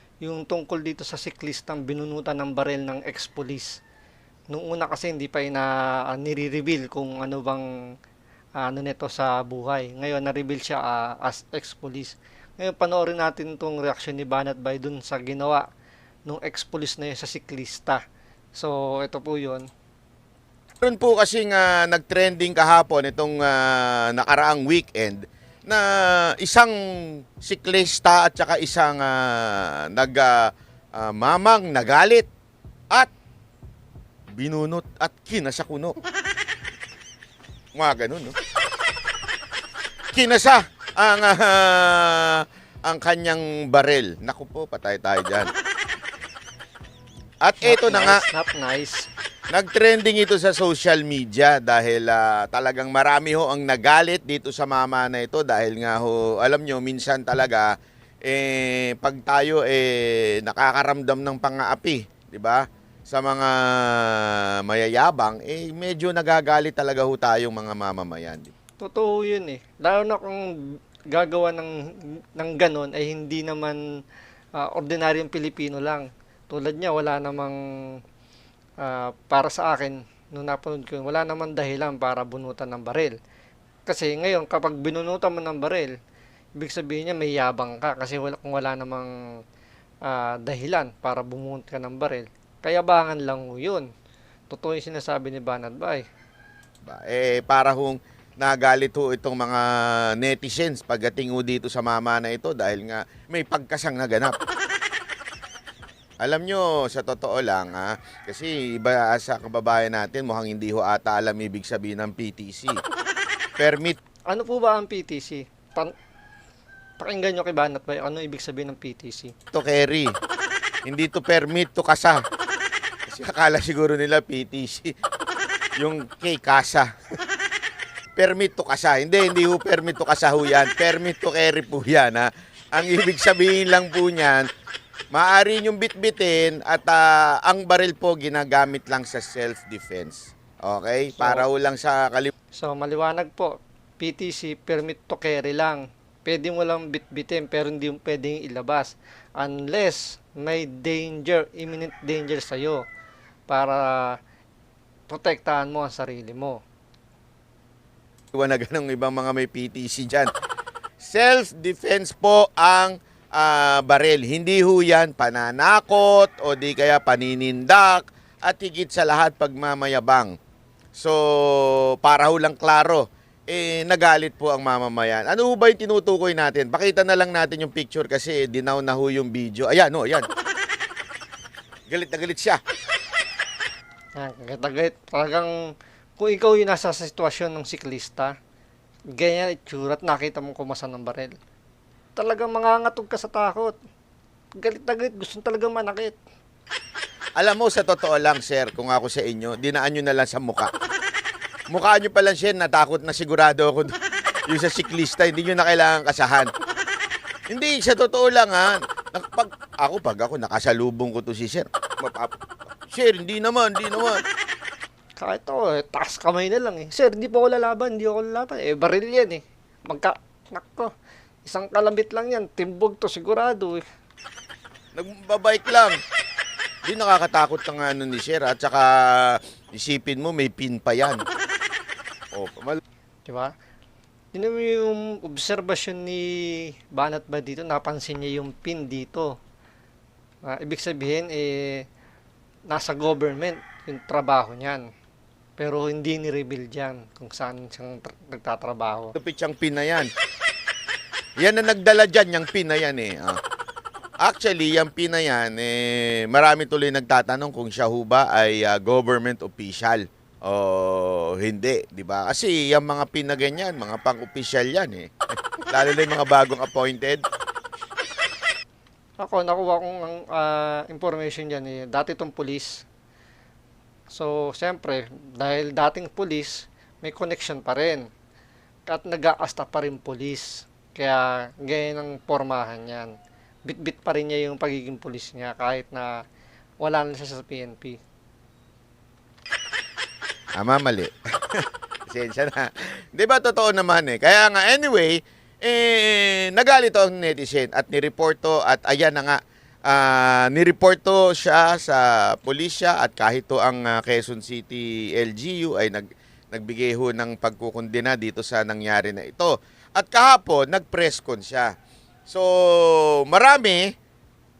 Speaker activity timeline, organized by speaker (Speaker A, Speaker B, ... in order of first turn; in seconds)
Speaker A: 0.2-3.8, 4.5-7.7, 8.6-15.7, 16.3-18.0, 18.5-19.7, 47.6-49.0, 68.8-70.5, 71.1-73.8, 74.5-78.0, 78.8-83.2, 83.8-85.9, 86.6-89.1, 90.0-93.9, 94.5-96.0, 114.3-115.9, 117.0-119.3, 141.1-141.4, 142.5-152.8, 153.5-154.2, 155.1-156.6, 184.2-185.5, 186.2-188.3, 189.1-191.3, 192.2-193.8, 194.6-196.2, 215.2-220.9, 221.4-223.8, 233.2-233.5, 234.3-239.3, 240.4-241.8, 242.7-244.9, 245.6-249.1, 269.2-272.9, 274.1-278.1, 278.9-283.1, 283.6-286.2, 286.8-288.0
Speaker B: 20.8-32.3, 34.3-36.0, 37.8-38.3, 40.1-45.5, 47.4-48.2, 49.5-57.7, 58.2-68.5, 96.8-104.4, 106.2-112.8, 113.6-114.0, 119.5-120.1, 120.8-122.2, 123.1-124.9, 125.8-126.9, 128.2-134.5, 135.1-142.3, 158.3-160.3, 161.0-170.3, 170.9-180.3, 181.9-182.6, 197.4-200.7, 201.7-203.9, 204.5-206.5, 207.5-212.3, 212.9-214.2, 224.9-226.0, 226.8-231.2, 232.3-232.8, 249.2-250.1, 251.4-253.4, 254.2-265.1, 265.7-267.2, 290.6-311.7, 312.3-313.9